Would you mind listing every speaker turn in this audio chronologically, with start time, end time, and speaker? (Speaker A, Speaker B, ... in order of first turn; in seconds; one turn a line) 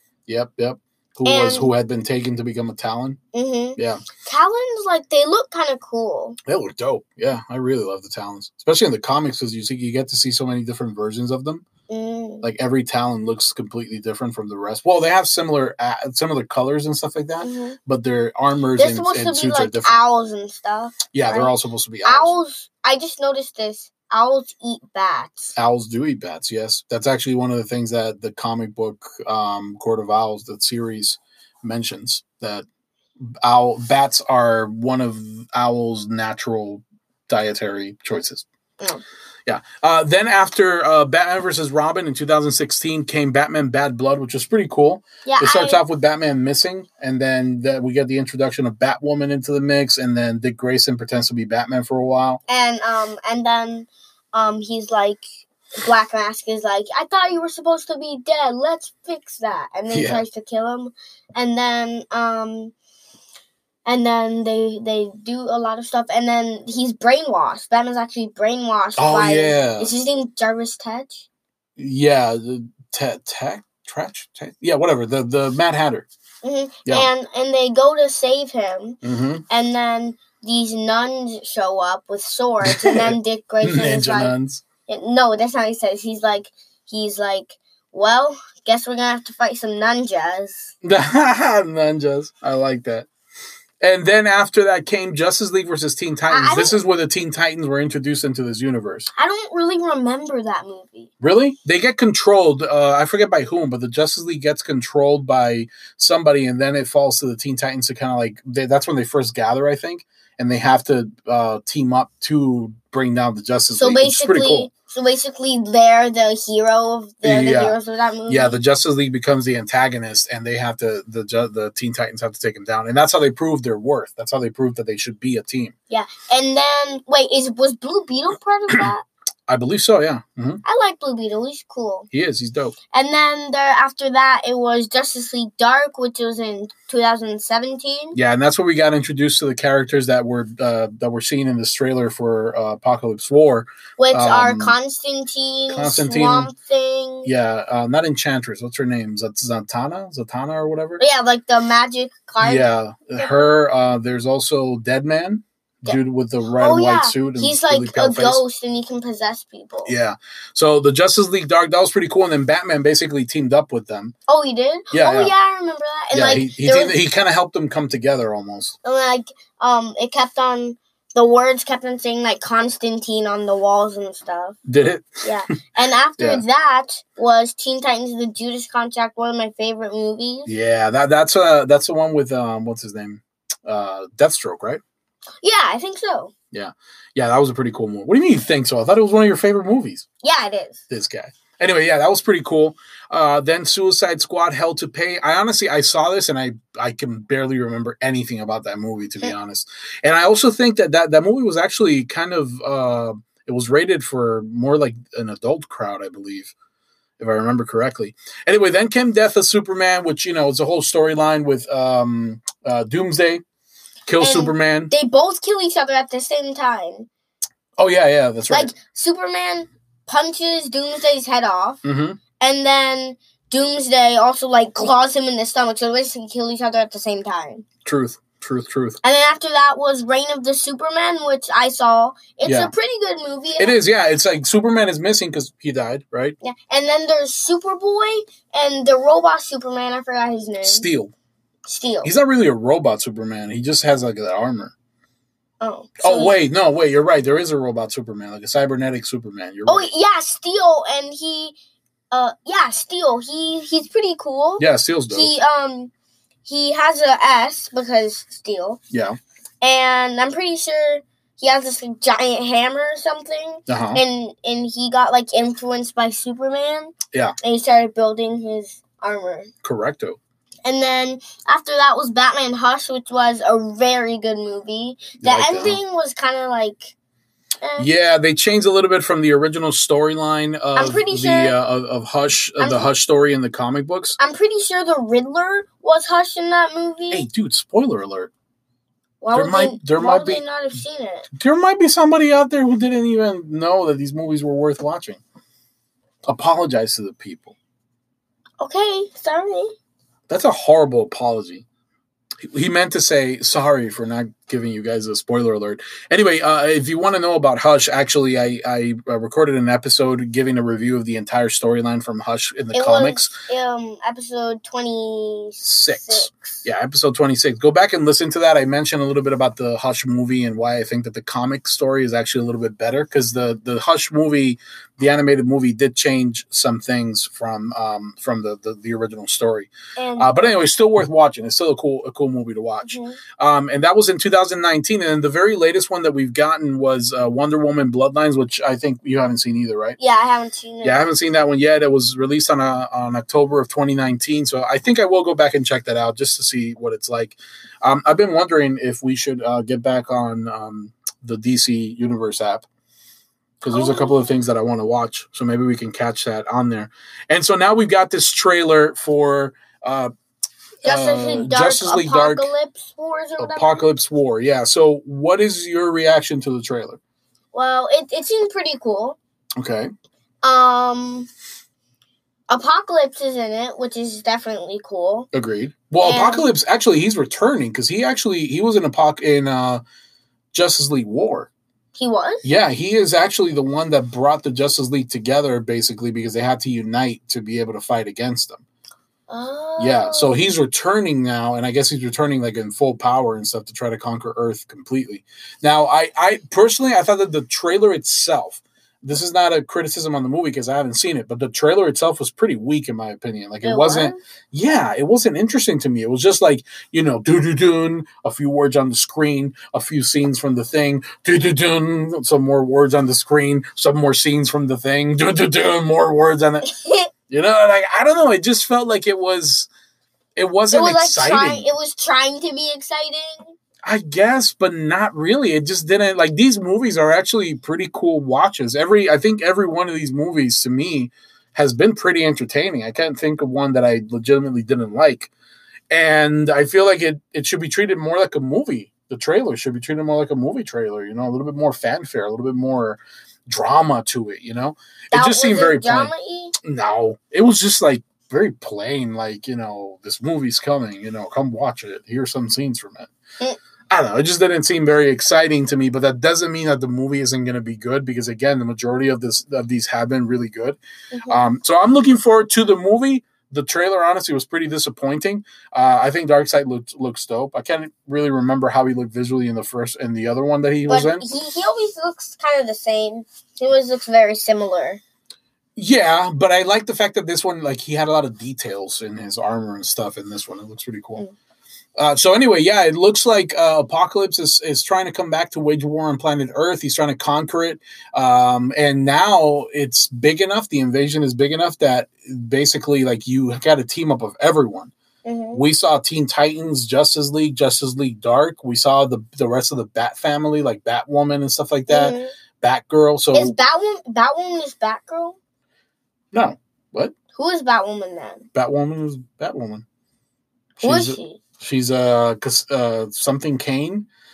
Speaker A: 0.3-3.2
Speaker B: 1.2-1.7
Speaker B: 3.3-6.4
Speaker A: 3.8-4.0
Speaker A: 6.4-11.6
Speaker B: 11.9-12.5
Speaker A: 12.4-20.0
Speaker B: 17.4-17.8
Speaker B: 18.8-21.5
Speaker A: 21.1-22.3
Speaker B: 22.0-25.5
Speaker A: 25.6-32.6
Speaker A: 33.4-38.4
Speaker A: 39.5-52.4
Speaker B: 45.2-45.8
Speaker B: 52.5-55.3
Speaker B: 55.8-62.7
Speaker A: 59.9-60.2
Speaker B: 63.8-71.3
Speaker A: 69.0-69.9
Speaker A: 71.8-76.1
Speaker B: 76.4-84.3
Speaker A: 79.0-79.4
Speaker A: 82.6-84.6
Speaker B: 84.9-90.7
Speaker A: 90.8-93.1
Speaker A: 93.8-99.1
Speaker B: 96.3-96.8
Speaker B: 99.1-101.1
Speaker A: 101.2-114.7
Speaker B: 113.7-118.6
Speaker A: 117.2-125.7
Speaker B: 125.9-129.1
Speaker A: 129.5-130.6
Speaker B: 130.6-132.1
Speaker A: 132.1-132.7
Speaker B: 132.9-138.2
Speaker A: 138.1-144.8
Speaker B: 144.0-147.3
Speaker A: 145.7-146.5
Speaker A: 147.2-151.0
Speaker B: 151.0-153.5
Speaker A: 152.4-158.4
Speaker B: 156.6-159.9
Speaker A: 159.8-164.1
Speaker B: 164.3-167.0
Speaker A: 164.9-165.3
Speaker A: 166.1-168.8
Speaker B: 168.8-174.6
Speaker A: 174.7-175.2
Speaker B: 175.2-180.5
Speaker A: 176.2-176.4
Speaker A: 180.5-184.8
Speaker B: 185.4-186.3
Speaker A: 186.5-190.1
Speaker B: 190.2-190.8
Speaker A: 190.9-206.5
Speaker A: 207.2-213.4
Speaker A: 214.1-214.9
Speaker B: 214.2-217.1
Speaker A: 217.8-218.7
Speaker B: 218.5-221.8
Speaker A: 221.8-222.2
Speaker B: 222.4-227.6
Speaker A: 227.8-229.0
Speaker B: 229.0-233.8
Speaker A: 232.4-232.7
Speaker A: 233.6-236.4
Speaker B: 236.4-240.9
Speaker A: 240.6-241.1
Speaker B: 241.6-242.1
Speaker A: 242.0-244.7
Speaker B: 245.6-246.4
Speaker A: 246.0-249.9
Speaker B: 249.7-251.6
Speaker B: 252.1-255.9
Speaker A: 254.6-255.3
Speaker B: 256.4-258.8
Speaker A: 258.9-259.2
Speaker B: 259.6-269.5
Speaker A: 263.7-264.0
Speaker A: 269.6-270.2
Speaker B: 270.6-276.9
Speaker A: 275.2-275.8
Speaker B: 277.6-277.9
Speaker A: 277.8-284.2
Speaker B: 280.7-281.5
Speaker B: 282.6-282.9
Speaker B: 284.2-287.3
Speaker A: 287.1-288.3
Speaker B: 289.2-291.3
Speaker A: 289.3-290.4
Speaker A: 291.3-295.2
Speaker A: 296.2-297.5
Speaker B: 298.6-299.7
Speaker A: 300.3-301.6
Speaker A: 302.4-313.4
Speaker B: 312.7-316.6
Speaker A: 315.6-340.0
Speaker B: 330.0-330.3
Speaker B: 332.8-333.2
Speaker B: 340.0-341.0
Speaker A: 340.8-352.6
Speaker A: 353.6-360.1
Speaker B: 353.6-354.3
Speaker B: 360.8-363.9
Speaker A: 360.8-362.5
Speaker A: 363.4-367.0
Speaker B: 367.5-369.2
Speaker A: 369.6-369.9
Speaker B: 370.4-371.3
Speaker B: 372.5-375.3
Speaker A: 375.3-379.8
Speaker B: 376.0-376.5
Speaker A: 380.5-381.5
Speaker B: 381.9-382.4
Speaker A: 382.4-388.6
Speaker B: 389.3-390.4
Speaker A: 389.8-416.7
Speaker B: 403.6-404.2
Speaker B: 416.6-417.1
Speaker A: 417.3-419.7
Speaker A: 420.4-421.7
Speaker B: 420.7-423.5
Speaker A: 423.8-435.3
Speaker A: 435.9-453.1
Speaker B: 445.1-446.6
Speaker A: 453.9-471.2
Speaker B: 461.1-461.4
Speaker B: 470.9-475.0
Speaker A: 475.8-481.2
Speaker A: 482.0-494.9
Speaker B: 495.2-495.6
Speaker A: 495.5-503.6
Speaker B: 501.9-502.3
Speaker B: 503.3-505.4
Speaker A: 506.3-507.1
Speaker B: 507.3-508.4
Speaker A: 508.5-509.8
Speaker A: 510.8-514.1
Speaker B: 510.8-511.4